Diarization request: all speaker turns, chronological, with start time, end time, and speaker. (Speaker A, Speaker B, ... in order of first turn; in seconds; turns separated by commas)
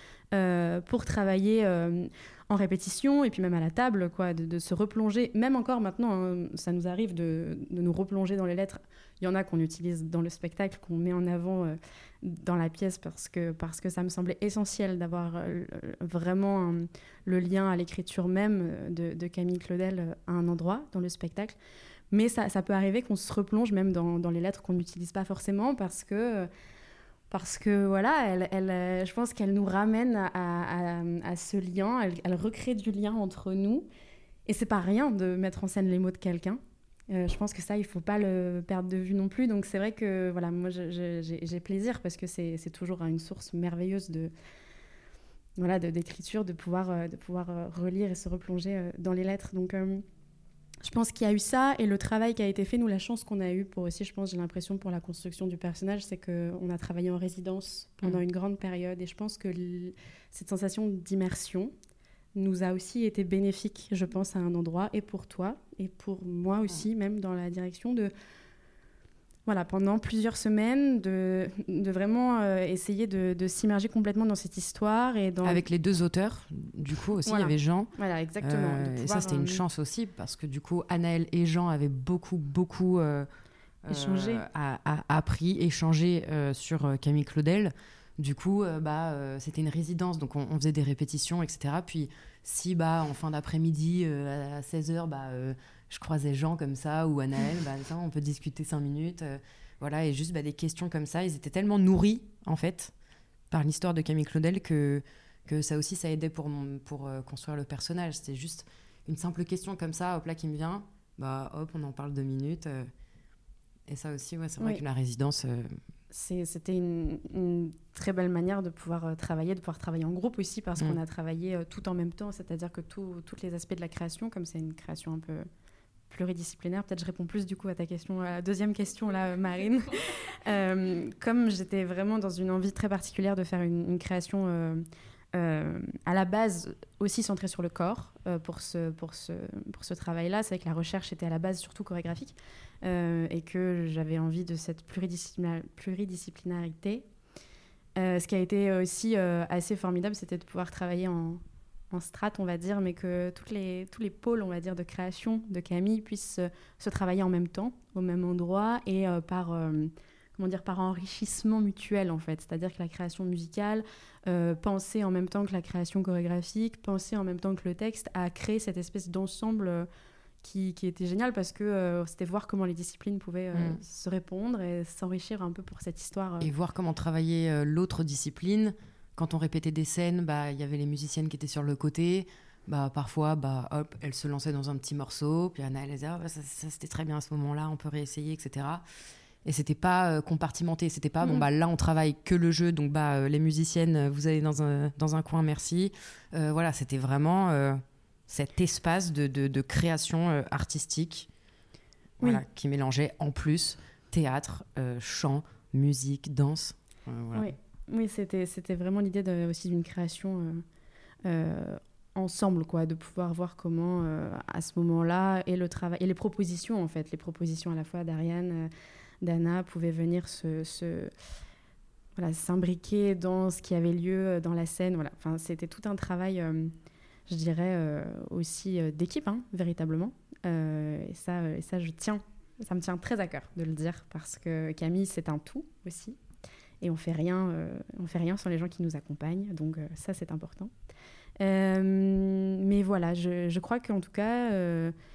Speaker A: 0.3-21.6, Speaker A: 22.1-26.5, Speaker A: 27.3-33.9, Speaker A: 34.5-44.3, Speaker A: 45.6-50.0, Speaker A: 50.8-61.7, Speaker A: 62.4-68.1, Speaker A: 69.5-75.7, Speaker B: 75.4-83.3, Speaker A: 77.2-79.6, Speaker B: 83.9-102.9, Speaker A: 83.9-84.5, Speaker B: 103.5-112.9, Speaker B: 113.9-115.8, Speaker A: 116.1-125.5, Speaker A: 126.1-147.1, Speaker A: 148.0-169.9, Speaker A: 170.4-176.5, Speaker B: 173.5-173.8, Speaker B: 176.4-188.8, Speaker B: 189.4-201.3, Speaker A: 191.2-191.5, Speaker B: 202.2-207.5, Speaker A: 207.3-210.6, Speaker A: 211.2-218.7, Speaker A: 219.2-221.1, Speaker A: 222.2-226.7, Speaker A: 227.3-236.2, Speaker A: 236.8-240.7, Speaker A: 241.4-244.9